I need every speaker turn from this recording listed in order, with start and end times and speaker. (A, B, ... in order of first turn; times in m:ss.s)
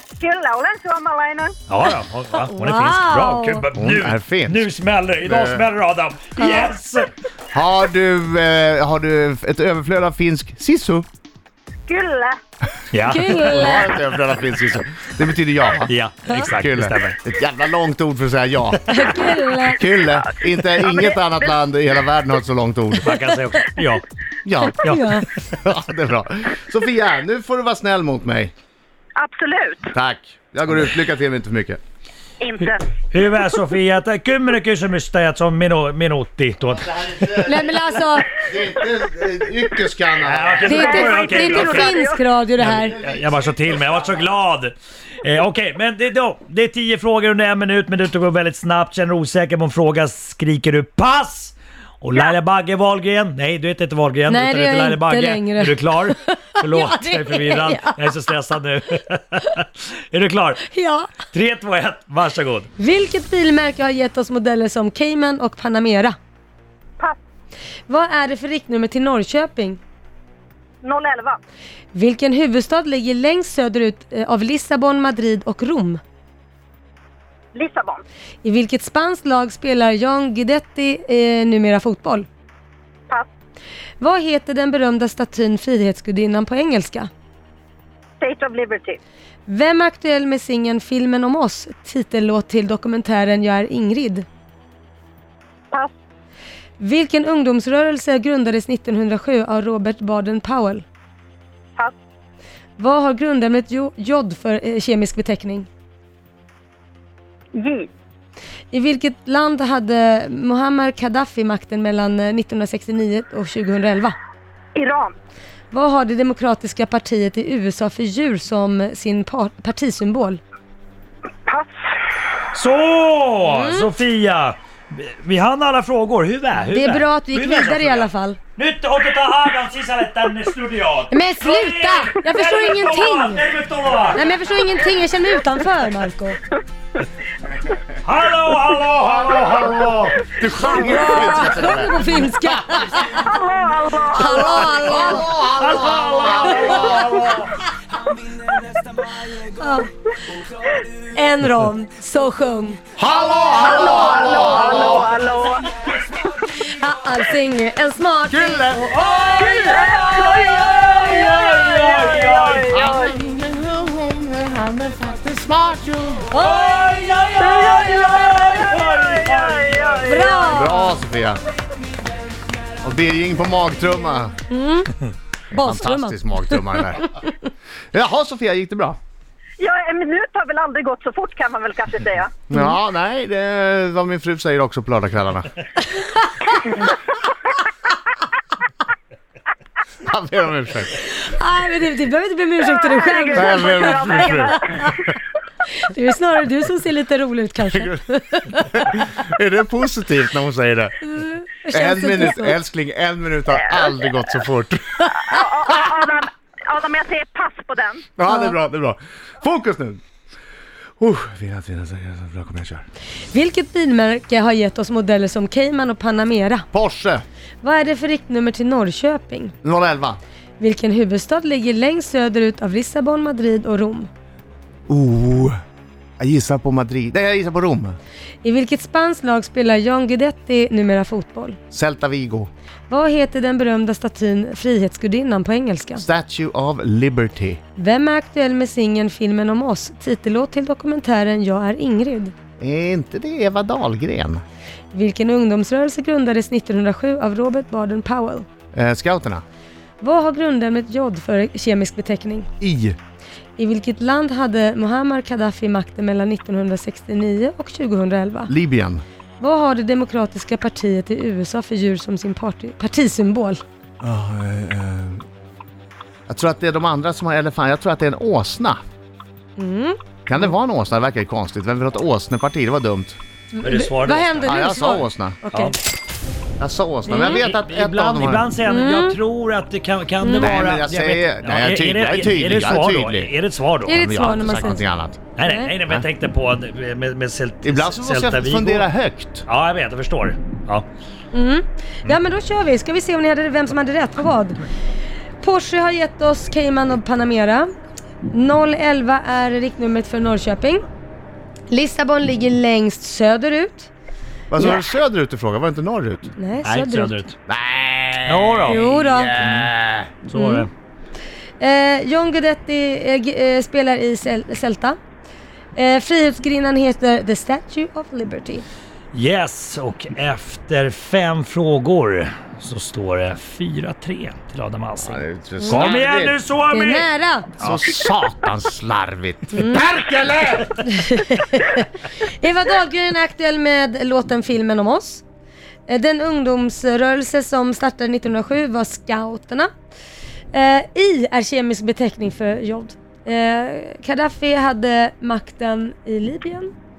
0:00.2-0:01.6 A
0:01.7-0:07.1 B
0:02.3-0:03.6 C
0:03.8-0:04.6 D
0:05.2-0:05.7 D
0:06.4-0:06.7 C
0:07.5-0:11.0 D
0:11.9-0:12.4 A
0:12.9-0:13.4 B
0:13.0-0:14.0 C
0:13.3-0:18.8 D
0:15.8-0:17.2 B
0:18.9-0:19.8 C
0:19.7-0:23.1 D
0:20.1-0:21.5 A
0:23.0-0:24.0 B
0:24.4-0:28.5 D
0:24.8-0:25.2 B
0:24.8-0:25.3 C
0:29.2-0:29.9 A
0:29.9-0:31.8 D
0:32.4-0:32.9 A
0:33.1-0:37.1 B
0:36.8-0:40.6 D
0:37.4-0:38.4 C
0:40.2-0:42.0 B
0:40.6-0:42.2 A
0:40.6-0:43.0 C
0:42.6-1:00.7 B
0:42.6-0:43.9 D
0:54.3-0:58.1 C
1:00.6-1:01.1 C
1:01.3-1:02.7 B
1:02.8-1:06.2 C
1:07.9-1:09.8 C
1:10.8-1:11.4 A
1:11.9-1:16.0 C
1:17.5-1:18.0 A
1:18.4-1:22.3 C
1:24.0-1:27.1 C
1:28.2-1:29.0 A
1:29.5-1:34.3 C
1:36.8-1:40.8 C
1:42.8-1:45.7 C
1:47.6-1:47.9 A
1:48.7-1:54.2 C
1:54.7-1:55.1 A
1:55.7-2:00.4 C
2:01.4-2:01.7 A
2:02.5-2:14.2 B
2:03.4-2:03.9 C
2:06.7-2:08.4 C
2:11.1-2:13.4 C
2:14.1-2:16.4 C
2:18.0-2:20.4 B
2:20.2-2:22.4 D
2:20.6-2:23.3 C
2:23.1-2:25.0 A
2:24.1-2:25.3 C
2:24.7-2:27.4 D
2:24.7-2:27.5 B
2:26.3-2:27.5 C
2:29.3-2:29.9 C
2:31.0-2:32.8 C
2:33.0-2:35.1 D
2:33.4-2:35.0 B
2:33.6-2:35.7 A
2:36.6-2:38.8 C
2:38.3-2:38.9 D
2:38.7-2:42.8 B
2:39.3-2:43.1 A
2:42.7-2:46.4 D
2:46.3-2:50.3 B
2:47.4-2:50.6 A
2:50.1-2:50.9 C
2:50.5-2:51.4 D
2:52.8-2:54.3 D
2:54.5-2:54.9 C
2:55.5-2:57.2 D
2:55.5-2:57.3 C
2:57.9-2:59.0 D
2:59.6-3:02.4 A
3:02.5-3:05.5 D
3:06.0-3:06.6 C
3:10.0-3:11.0 D
3:11.1-3:15.0 C
3:12.6-3:14.9 A
3:13.3-3:15.1 D
3:15.8-3:19.0 C
3:17.7-3:18.0 D
3:18.7-3:21.1 D
3:21.0-3:22.6 C
3:21.7-3:25.2 D
3:23.6-3:23.9 A
3:25.2-3:28.1 A
3:28.2-3:30.0 D
3:28.2-3:28.6 C
3:31.0-3:32.8 D
3:33.3-3:36.6 C
3:36.7-3:37.2 D
3:37.6-3:39.5 C
3:39.6-3:40.2 D
3:40.6-3:44.1 C
3:44.9-3:45.6 D
3:46.2-3:48.0 D
3:48.4-3:51.6 C
3:51.7-3:52.5 D
3:52.9-3:56.0 C
3:56.0-3:57.6 D
3:57.8-4:02.3 C
4:02.6-4:04.4 D
4:04.9-4:08.5 C
4:08.7-4:09.4 D
4:10.0-4:12.5 C
4:12.6-4:13.0 D
4:13.6-4:18.5 C
4:18.5-4:19.0 D
4:19.4-4:23.6 C
4:24.0-4:25.2 D
4:26.3-4:28.8 D
4:29.6-4:30.5 C
4:30.3-4:33.2 D
4:33.5-4:35.8 C
4:33.6-4:34.5 B
4:34.3-4:35.4 D
4:36.6-4:38.5 D
4:37.1-4:44.7 B
4:37.1-4:37.4 C
4:38.6-4:39.2 C
4:40.2-4:40.6 C
4:40.3-4:43.3 D
4:43.8-4:44.8 C
4:43.8-4:45.2 D
4:45.4-4:48.9 B
4:45.4-4:45.7 C
4:47.6-4:49.4 D
4:49.4-4:50.8 B
4:51.3-4:54.6 C
4:55.4-4:57.7 C
4:58.2-5:00.8 C
5:01.7-5:03.9 C
5:04.5-5:06.3 D
5:06.4-5:07.2 C
5:06.6-5:07.4 B
5:07.5-5:10.1 D
5:08.3-5:08.8 B
5:08.6-5:09.4 C
5:09.4-5:09.7 B
5:10.2-5:10.7 B
5:10.3-5:10.7 C
5:11.6-5:15.0 C
5:15.8-5:18.6 C
5:19.1-5:27.1 B
5:25.0-5:26.4 D
5:25.6-5:25.9 C
5:26.7-5:27.5 C
5:27.6-5:30.8 D
5:29.5-5:29.8 C
5:30.8-5:35.2 C
5:35.9-5:39.7 C
5:40.5-5:46.7 C